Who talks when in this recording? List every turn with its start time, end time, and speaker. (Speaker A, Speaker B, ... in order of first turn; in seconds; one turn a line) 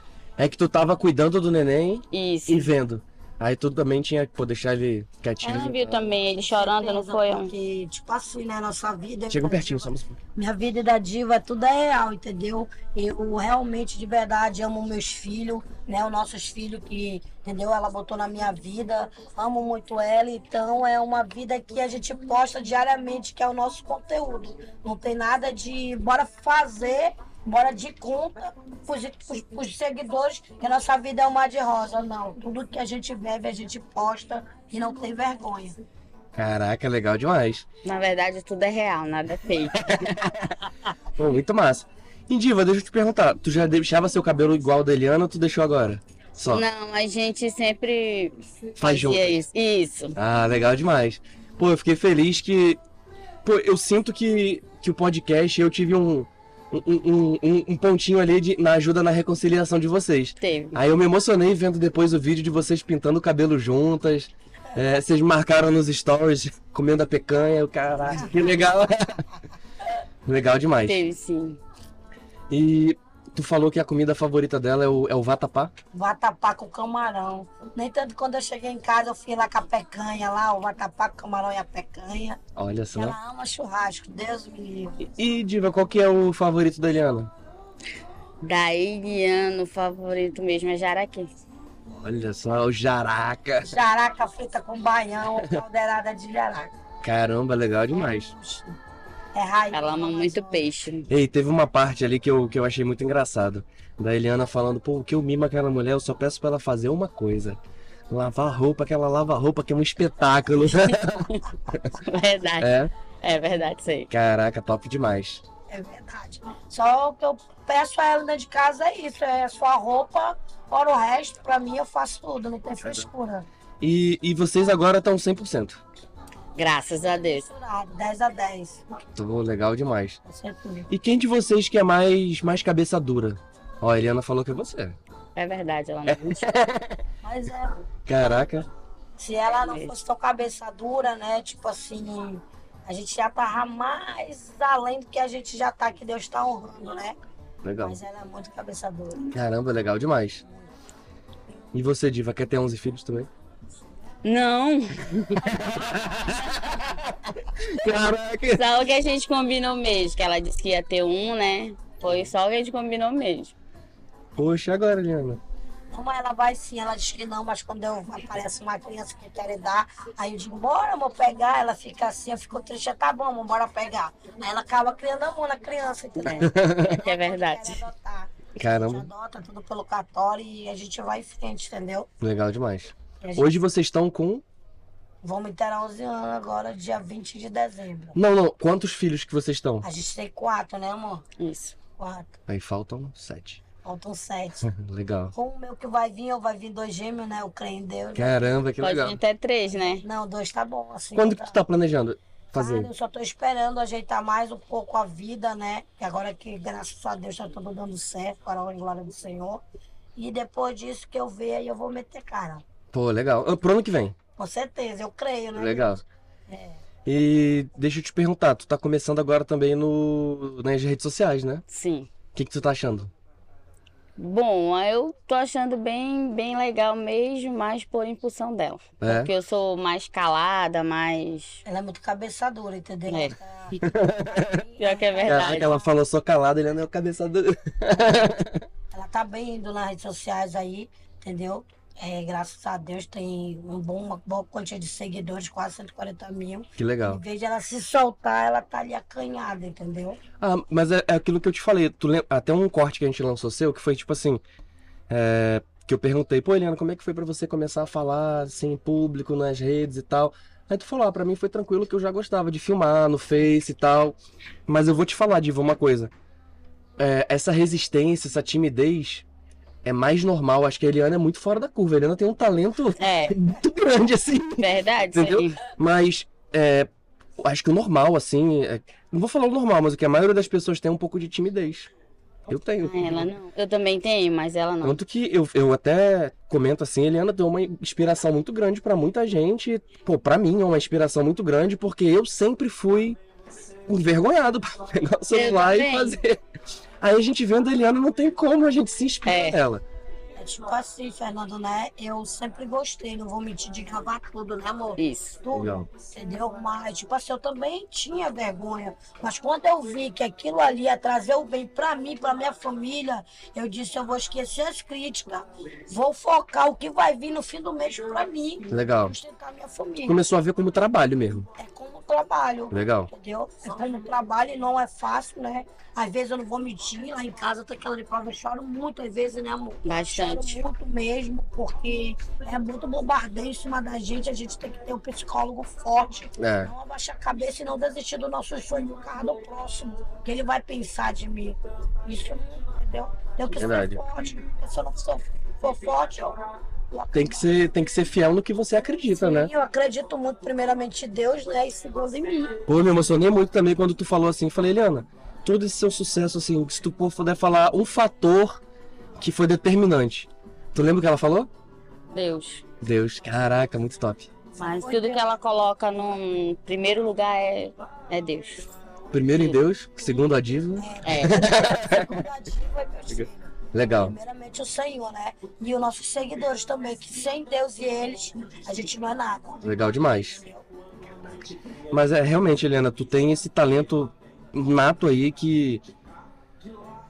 Speaker A: 0.4-6.1
Speaker B: 2.1-2.7
Speaker B: 5.4-7.5
Speaker C: 6.2-35.8
Speaker A: 9.3-10.2
Speaker A: 36.4-37.7
Speaker B: 37.8-40.3
Speaker A: 39.7-40.5
Speaker A: 41.2-46.7
Speaker B: 46.5-50.1
Speaker A: 48.8-49.4
Speaker A: 50.1-52.8
Speaker A: 53.4-69.2
Speaker B: 60.4-60.8
Speaker A: 70.3-71.0
Speaker B: 70.9-71.6
Speaker A: 72.5-75.7
Speaker C: 75.9-82.4
Speaker A: 82.6-83.2
Speaker C: 82.9-85.0
Speaker A: 85.0-87.3
Speaker B: 88.4-91.3
Speaker A: 92.0-93.8
Speaker C: 93.6-96.7
Speaker A: 97.0-98.3
Speaker C: 97.9-98.8
Speaker C: 99.3-100.7
Speaker B: 99.7-101.1
Speaker A: 101.1-107.6
Speaker A: 108.1-111.9
Speaker B: 111.3-114.1
Speaker A: 112.6-112.9
Speaker A: 114.1-115.4
Speaker C: 115.7-123.5
Speaker A: 123.8-125.8
Speaker B: 126.6-127.5
Speaker C: 127.2-128.8
Speaker A: 129.2-130.2
Speaker C: 130.2-130.9
Speaker A: 130.9-135.0
Speaker B: 135.4-136.5
Speaker A: 136.1-137.0
Speaker C: 137.2-137.8
Speaker A: 138.1-138.7
Speaker C: 139.2-147.2
Speaker B: 139.5-140.0
Speaker A: 147.6-148.0
Speaker C: 147.8-149.3
Speaker A: 149.3-150.4
Speaker A: 151.7-153.3
Speaker B: 154.2-155.5
Speaker A: 155.4-158.6
Speaker B: 158.5-163.5
Speaker A: 162.1-162.3
Speaker A: 164.4-165.4
Speaker C: 165.9-182.1
Speaker A: 176.3-177.0
Speaker B: 176.3-177.8
Speaker A: 178.6-179.1
Speaker A: 182.2-184.4
Speaker C: 183.2-183.6
Speaker C: 185.2-188.2
Speaker A: 188.2-189.9
Speaker C: 189.8-191.2
Speaker B: 191.4-191.8
Speaker C: 192.0-192.3
Speaker A: 192.5-193.6
Speaker C: 193.8-194.7
Speaker A: 194.7-195.3
Speaker C: 195.3-198.4
Speaker A: 198.2-199.2
Speaker B: 198.8-200.1
Speaker C: 200.0-201.6
Speaker A: 201.2-202.9
Speaker C: 202.6-209.6
Speaker C: 210.2-212.6
Speaker A: 212.9-214.2
Speaker C: 214.4-216.8
Speaker A: 215.6-216.0
Speaker A: 217.1-221.6
Speaker B: 221.7-222.1
Speaker A: 222.3-223.1
Speaker B: 224.2-231.6
Speaker A: 229.0-229.3
Speaker C: 231.7-235.8
Speaker B: 233.1-233.9
Speaker A: 233.8-234.6
Speaker B: 234.8-235.8
Speaker A: 235.3-238.7
Speaker C: 238.9-250.2
Speaker A: 246.8-247.2
Speaker A: 250.4-254.4
Speaker A: 255.1-264.2
Speaker A: 264.7-266.1
Speaker A: 267.0-269.2
Speaker A: 269.8-281.9
Speaker B: 273.0-273.4
Speaker B: 274.6-275.6
Speaker A: 282.5-283.3
Speaker B: 282.8-285.0
Speaker A: 284.8-293.2
Speaker A: 293.9-296.4
Speaker B: 295.3-296.2
Speaker A: 297.0-299.8
Speaker B: 299.3-299.6
Speaker C: 300.4-320.2
Speaker B: 305.0-305.4
Speaker A: 305.5-305.9
Speaker A: 318.7-319.1
Speaker A: 320.1-321.5
Speaker C: 321.6-346.4
Speaker A: 322.7-323.1
Speaker B: 329.9-330.6
Speaker A: 336.4-336.7
Speaker A: 343.6-344.0
Speaker C: 346.9-347.4
Speaker A: 347.1-349.5
Speaker C: 349.1-352.6
Speaker A: 352.7-358.6
Speaker A: 359.2-361.5
Speaker B: 362.1-362.6
Speaker A: 362.8-364.3
Speaker C: 364.6-365.3
Speaker B: 364.6-368.7
Speaker A: 369.1-372.2
Speaker C: 370.8-380.6
Speaker B: 371.1-371.4
Speaker A: 373.1-374.1
Speaker A: 379.6-380.4
Speaker A: 381.9-385.8